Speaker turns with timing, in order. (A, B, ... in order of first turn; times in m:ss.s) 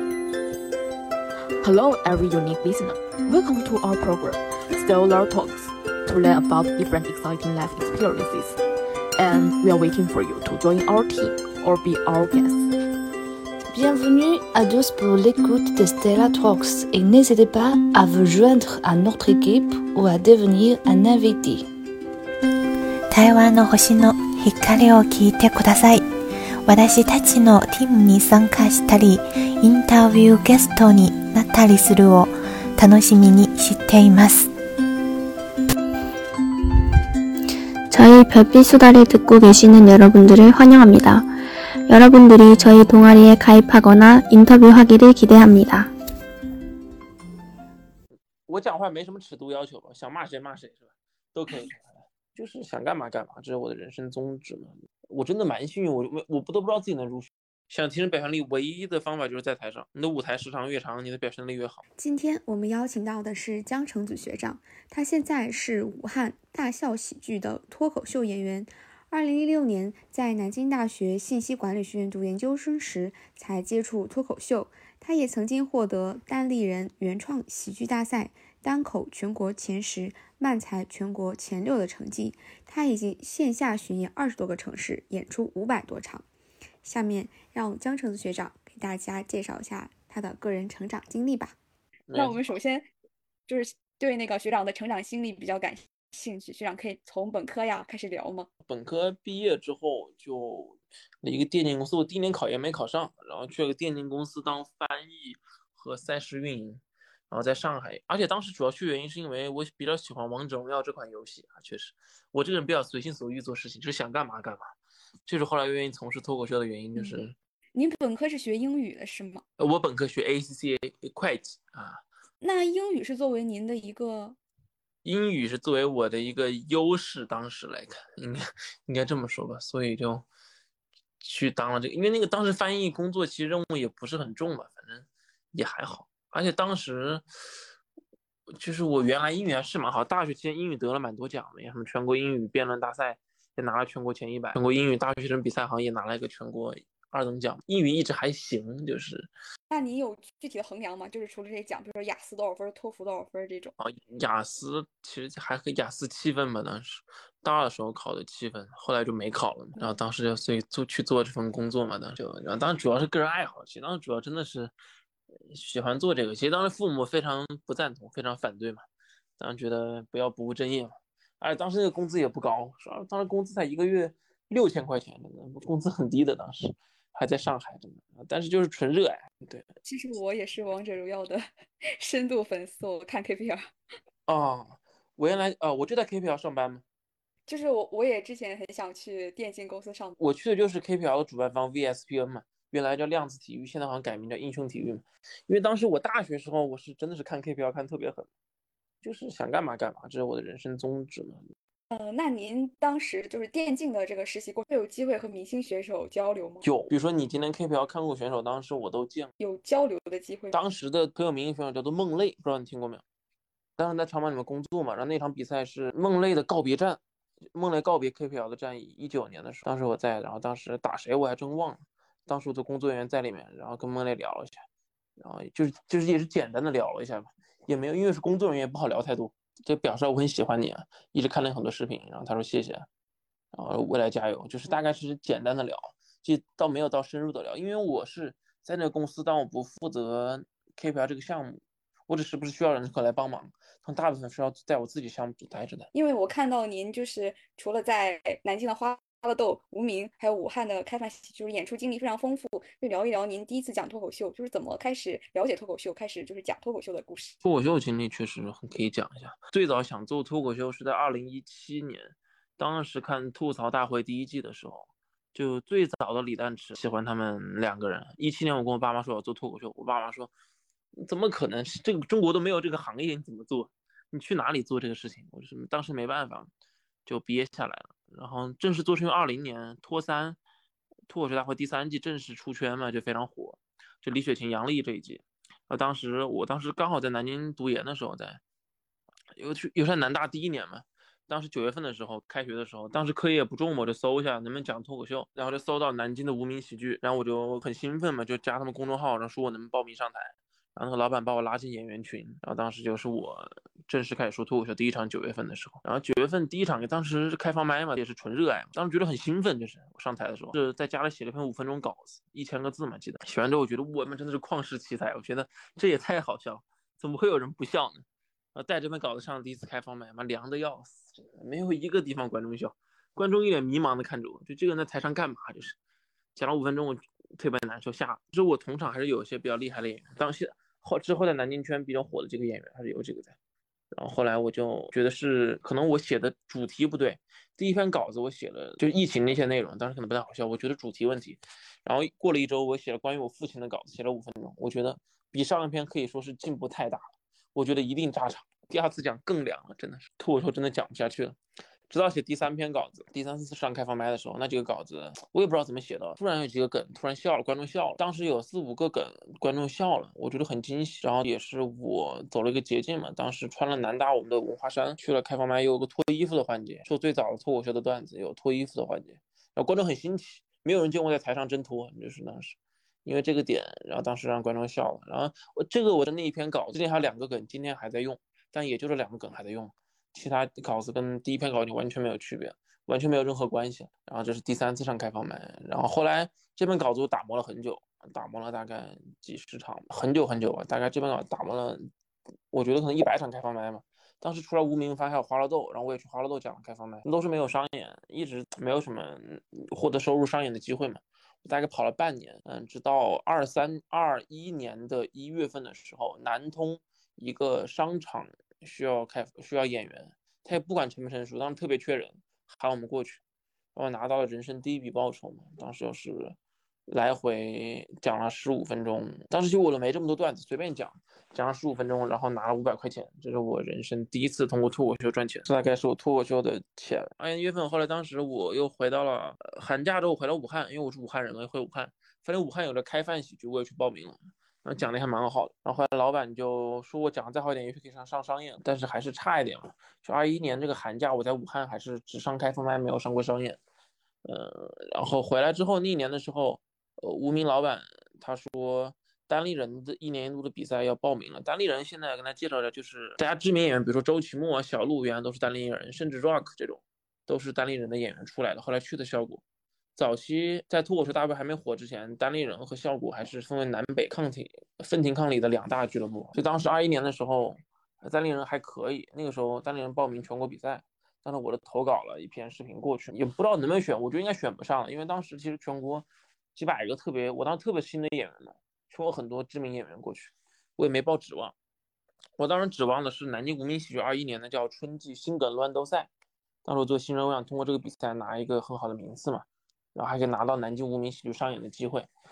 0:01.6-0:08.6 A
0:09.2-0:12.7 A
0:13.7-0:21.7 B
0:23.1-0:26.1 C
0:26.6-0:34.5 C
0:37.9-0:41.3 D
0:41.9-0:45.9 D
0:48.5-1:01.8 E
1:02.0-1:26.3 F
1:26.8-1:31.6 F
1:32.1-1:32.4 E
1:32.1-1:32.9 G
1:33.5-1:38.5 G
1:38.7-1:54.7 E
1:55.3-1:57.4 E
1:57.8-1:59.4 G
1:59.6-2:02.0 E
2:02.4-2:04.4 G
2:05.0-2:10.2 E
2:11.2-2:17.2 E
2:18.5-2:29.3 E
2:29.7-2:33.7 G
2:33.8-2:44.7 E
2:45.5-2:48.8 E
2:49.4-2:59.7 E
2:59.8-3:03.7 G
3:04.3-3:06.8 E
3:07.5-3:10.2 G
3:10.2-3:18.3 E
3:19.0-3:21.4 E
3:21.9-3:26.6 G
3:26.6-3:29.3 E
3:29.4-3:30.6 G
3:30.5-3:33.0 E
3:33.8-3:37.0 E
3:37.5-3:44.6 E
3:45.2-3:52.9 E
3:53.5-4:05.9 E
4:05.9-4:17.4 G
4:17.4-4:30.3 E
4:31.0-4:36.5 E
4:37.1-4:40.4 E
4:41.1-4:48.4 E
4:49.4-5:25.8 E
5:26.4-5:33.4 E
5:33.9-5:51.4 E
5:51.9-6:31.9 E
6:32.5-6:53.2 E
6:53.8-6:56.4 E
6:56.9-7:23.6 E
7:24.2-7:39.4 E
7:40.0-8:01.6 E
8:02.4-8:06.1 E
8:06.6-8:12.1 E